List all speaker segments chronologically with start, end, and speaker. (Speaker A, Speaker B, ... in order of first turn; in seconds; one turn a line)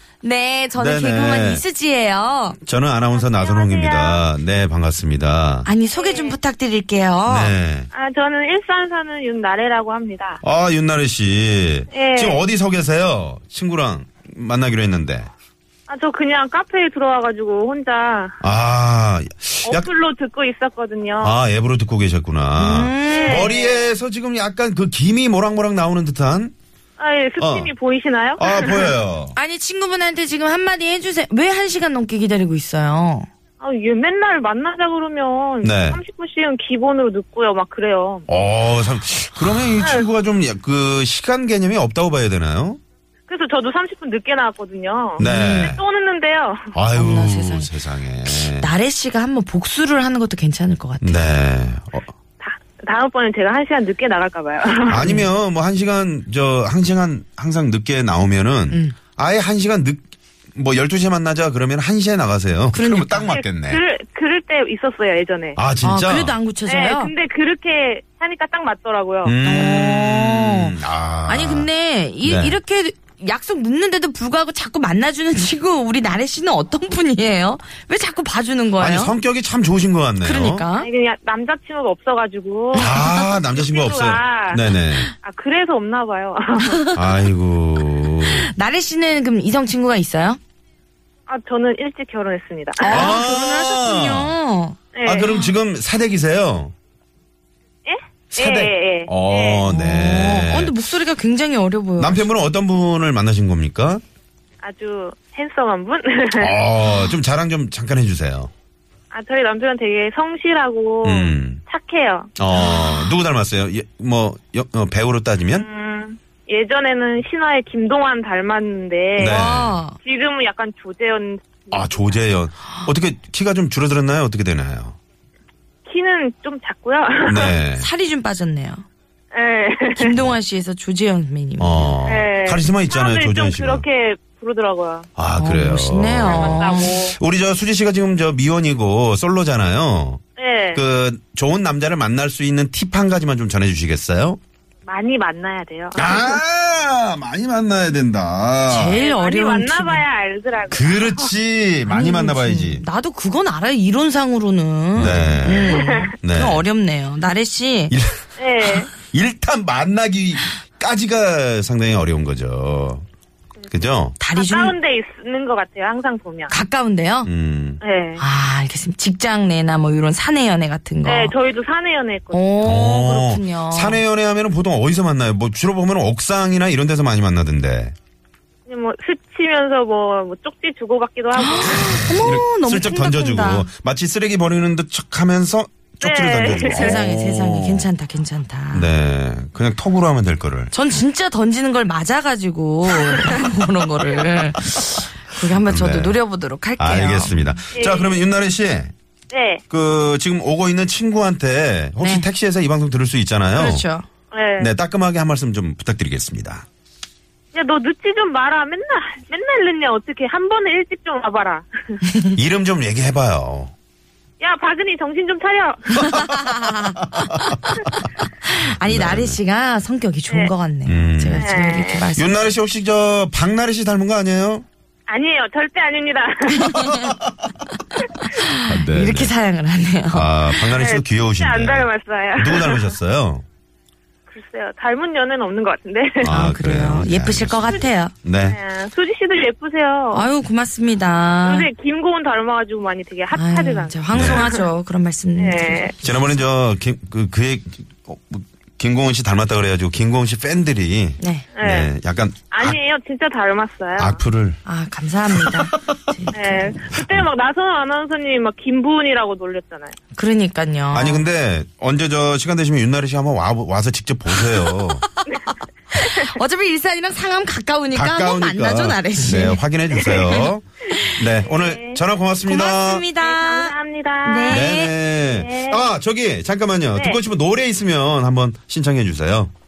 Speaker A: 0.2-2.6
Speaker B: 0.8-1.6
Speaker B: 2.6-5.7
Speaker C: 3.1-4.3
Speaker A: 5.7-7.5
Speaker C: 6.0-6.4
Speaker B: 7.3-7.9
Speaker C: 7.9-10.4
Speaker B: 10.4-15.3
Speaker C: 11.9-12.4
Speaker C: 15.9-18.4
Speaker B: 18.4-19.9
Speaker C: 19.6-21.4
Speaker B: 21.2-26.5
Speaker A: 22.6-23.5
Speaker C: 23.1-23.9
Speaker C: 27.0-28.9
Speaker B: 27.4-27.7
Speaker B: 28.4-29.4
Speaker A: 29.4-33.3
Speaker C: 33.6-38.3
Speaker B: 35.6-36.0
Speaker B: 38.3-42.8
Speaker C: 39.8-40.1
Speaker C: 43.3-46.7
Speaker A: 45.2-45.7
Speaker B: 45.2-45.8
Speaker B: 46.7-48.7
Speaker A: 46.9-47.7
Speaker A: 48.2-51.3
Speaker B: 51.0-52.1
Speaker C: 52.4-55.1
Speaker B: 54.9-63.8
Speaker A: 55.0-55.3
Speaker A: 58.7-59.0
Speaker A: 62.7-63.3
Speaker C: 63.3-65.6
Speaker B: 65.6-66.4
Speaker A: 65.8-67.1
Speaker C: 66.7-69.3
Speaker B: 69.2-71.7
Speaker A: 69.4-79.2
Speaker B: 72.2-72.6
Speaker B: 78.8-80.7
Speaker A: 80.2-80.9
Speaker C: 80.8-84.7
Speaker B: 82.7-85.1
Speaker A: 82.8-83.3
Speaker C: 85.2-86.8
Speaker A: 86.7-87.0
Speaker B: 86.9-88.5
Speaker A: 88.2-90.4
Speaker C: 91.3-93.1
Speaker A: 92.8-95.5
Speaker B: 92.9-94.4
Speaker C: 95.0-95.3
Speaker B: 95.0-96.7
Speaker C: 97.8-99.6
Speaker B: 98.3-100.8
Speaker A: 99.7-102.3
Speaker B: 102.0-104.0
Speaker C: 104.6-106.6
Speaker B: 106.4-108.5
Speaker C: 109.1-112.3
Speaker B: 111.0-111.6
Speaker B: 112.4-115.7
Speaker A: 112.5-113.1
Speaker C: 115.5-119.4
Speaker B: 119.2-119.8
Speaker A: 119.2-120.0
Speaker C: 120.0-122.1
Speaker B: 121.7-125.0
Speaker C: 125.9-127.5
Speaker B: 127.3-127.9
Speaker A: 127.7-128.8
Speaker C: 129.3-130.2
Speaker A: 130.0-132.0
Speaker B: 131.6-133.9
Speaker C: 132.1-135.1
Speaker B: 135.2-144.4
Speaker A: 135.3-137.0
Speaker C: 136.2-137.2
Speaker C: 140.4-140.8
Speaker C: 144.9-146.4
Speaker B: 145.9-149.0
Speaker A: 148.7-150.1
Speaker C: 148.9-151.3
Speaker B: 150.7-152.8
Speaker A: 151.9-157.9
Speaker B: 154.9-156.6
Speaker C: 155.5-156.1
Speaker B: 157.9-158.2
Speaker C: 158.4-158.9
Speaker B: 158.9-163.1
Speaker B: 163.7-164.2
Speaker A: 164.2-164.8
Speaker C: 164.3-166.6
Speaker A: 166.5-167.3
Speaker B: 167.2-167.8
Speaker C: 167.8-168.2
Speaker A: 168.2-171.3
Speaker C: 171.1-172.4
Speaker A: 172.3-174.0
Speaker B: 172.6-177.9
Speaker C: 178.7-181.9
Speaker A: 181.3-183.7
Speaker B: 181.6-187.9
Speaker C: 186.0-187.0
Speaker A: 186.5-188.9
Speaker B: 188.7-190.7
Speaker A: 190.7-197.4
Speaker B: 195.5-196.2
Speaker B: 196.8-198.9
Speaker C: 197.7-198.2
Speaker C: 199.3-199.6
Speaker B: 199.7-203.9
Speaker A: 202.0-202.3
Speaker A: 203.6-204.1
Speaker C: 204.3-204.7
Speaker B: 204.6-206.7
Speaker C: 207.5-212.0
Speaker B: 212.3-213.7
Speaker C: 214.4-216.1
Speaker A: 216.0-217.4
Speaker A: 218.4-222.4
Speaker B: 218.8-219.4
Speaker B: 220.9-221.5
Speaker C: 221.4-222.1
Speaker B: 222.1-224.7
Speaker C: 225.1-226.9
Speaker A: 226.5-227.2
Speaker B: 227.0-227.3
Speaker A: 228.2-230.6
Speaker B: 228.6-229.3
Speaker B: 230.1-233.4
Speaker C: 230.7-232.9
Speaker C: 234.3-236.3
Speaker B: 236.2-238.6
Speaker A: 236.3-238.1
Speaker C: 238.5-240.3
Speaker A: 240.1-241.7
Speaker C: 241.4-244.6
Speaker A: 243.3-245.9
Speaker B: 244.1-244.5
Speaker C: 245.4-246.0
Speaker B: 246.0-252.8
Speaker A: 251.2-251.5
Speaker C: 251.6-251.9
Speaker C: 252.5-254.2
Speaker B: 254.0-254.6
Speaker A: 254.7-256.8
Speaker B: 255.4-255.8
Speaker C: 256.3-259.9
Speaker A: 260.1-261.3
Speaker B: 260.9-265.0
Speaker A: 264.4-264.8
Speaker A: 265.9-270.5
Speaker B: 267.9-273.1
Speaker C: 270.0-270.4
Speaker C: 270.9-272.0
Speaker A: 272.4-274.9
Speaker C: 273.2-275.9
Speaker B: 274.5-279.5
Speaker C: 276.9-277.2